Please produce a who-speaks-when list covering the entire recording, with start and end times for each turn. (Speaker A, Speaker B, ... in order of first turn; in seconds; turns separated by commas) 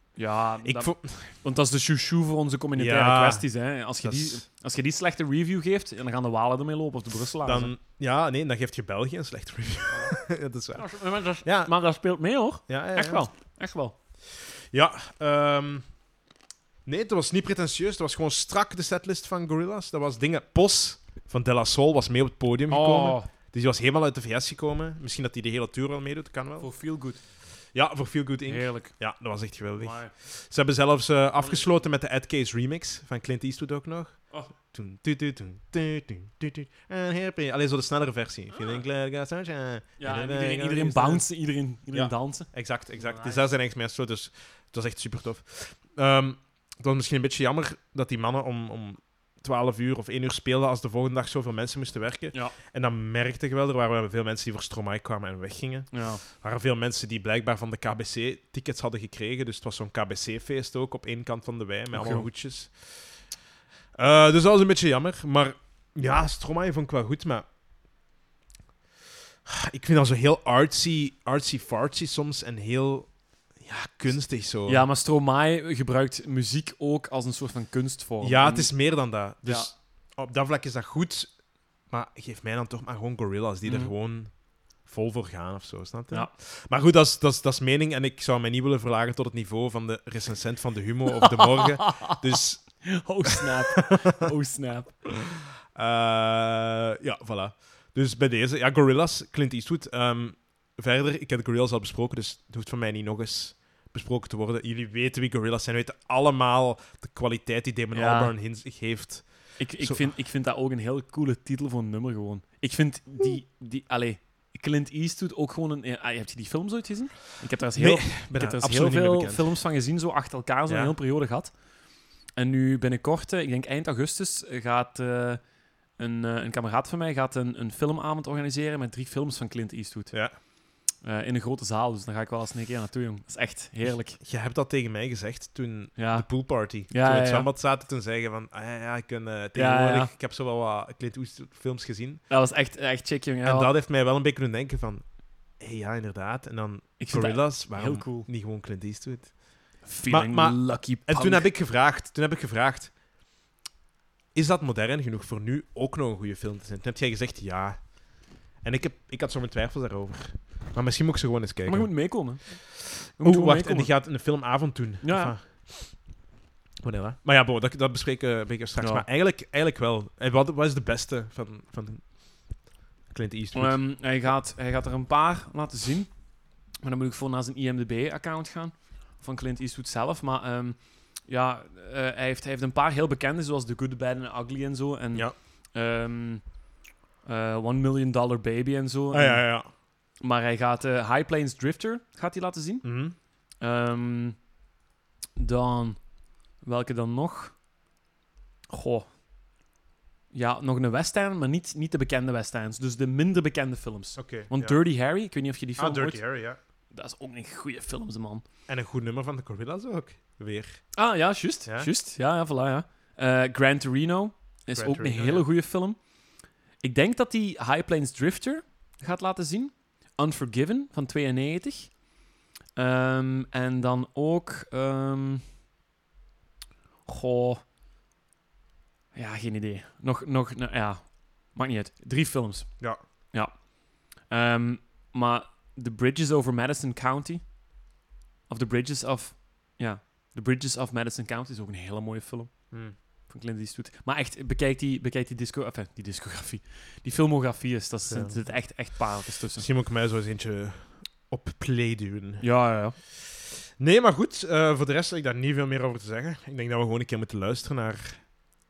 Speaker A: 0.2-7.7, Speaker B: 0.6-1.3, Speaker B: 2.7-3.5, Speaker B: 4.0-4.4, Speaker B: 7.4-10.9, Speaker A: 9.9-10.2, Speaker A: 10.8-13.9, Speaker B: 11.4-11.7, Speaker B: 12.7-13.2, Speaker B: 14.7-15.9, Speaker B: 16.9-26.7, Speaker A: 22.7-23.3, Speaker A: 26.6-27.2, Speaker B: 27.7-41.2, Speaker A: 28.5-28.9, Speaker A: 29.8-30.1, Speaker A: 31.4-31.7, Speaker A: 40.0-43.5, Speaker B: 41.9-63.2, Speaker A: 55.9-56.2, Speaker A: 61.9-62.3, Speaker B: 64.0-67.5, Speaker B: 69.5-74.9, Speaker A: 74.7-79.7, Speaker B: 78.2-81.4, Speaker B: 81.9-92.8, Speaker A: 83.7-83.9, Speaker A: 91.4-92.2, Speaker A: 92.8-95.0, Speaker B: 95.7-110.1, Speaker A: 107.9-108.3, Speaker A: 109.6-121.5, Speaker B: 117.8-119.5, Speaker B: 120.7-121.0, Speaker A: 122.4-125.4, Speaker A: 126.0-130.2, Speaker A: 131.0-134.2, Speaker B: 133.8-142.2, Speaker A: 136.0-137.5, Speaker A: 139.6-140.1, Speaker A: 142.3-143.7, Speaker B: 143.4-149.4, Speaker A: 147.0-148.3, Speaker A: 149.8-151.5, Speaker B: 150.1-152.9, Speaker B: 154.3-158.0, Speaker B: 158.6-162.2, Speaker A: 161.7-164.0, Speaker B: 163.2-166.1, Speaker A: 165.0-165.3, Speaker B: 166.8-172.6, Speaker A: 168.8-169.1, Speaker B: 173.1-173.8, Speaker A: 173.5-176.1, Speaker A: 176.8-186.5, Speaker A: 187.2-189.6, Speaker B: 189.1-189.7, Speaker A: 190.2-192.9, Speaker B: 192.8-193.2, Speaker A: 193.6-194.4, Speaker A: 195.4-196.0, Speaker A: 196.6-197.6, Speaker A: 198.7-199.1, Speaker A: 200.3-206.2, Speaker B: 204.2-204.8, Speaker B: 205.8-206.6, Speaker A: 206.9-208.4, Speaker B: 208.7-210.8, Speaker A: 210.9-216.0, Speaker B: 214.8-215.5, Speaker A: 216.8-222.0, Speaker A: 222.8-225.4, Speaker A: 227.1-227.7, Speaker A: 229.1-233.6, Speaker A: 234.3-237.4, Speaker A: 238.5-249.7, Speaker B: 242.7-243.0, Speaker B: 248.1-248.4, Speaker B: 249.6-252.4, Speaker A: 252.4-253.0, Speaker B: 253.8-258.3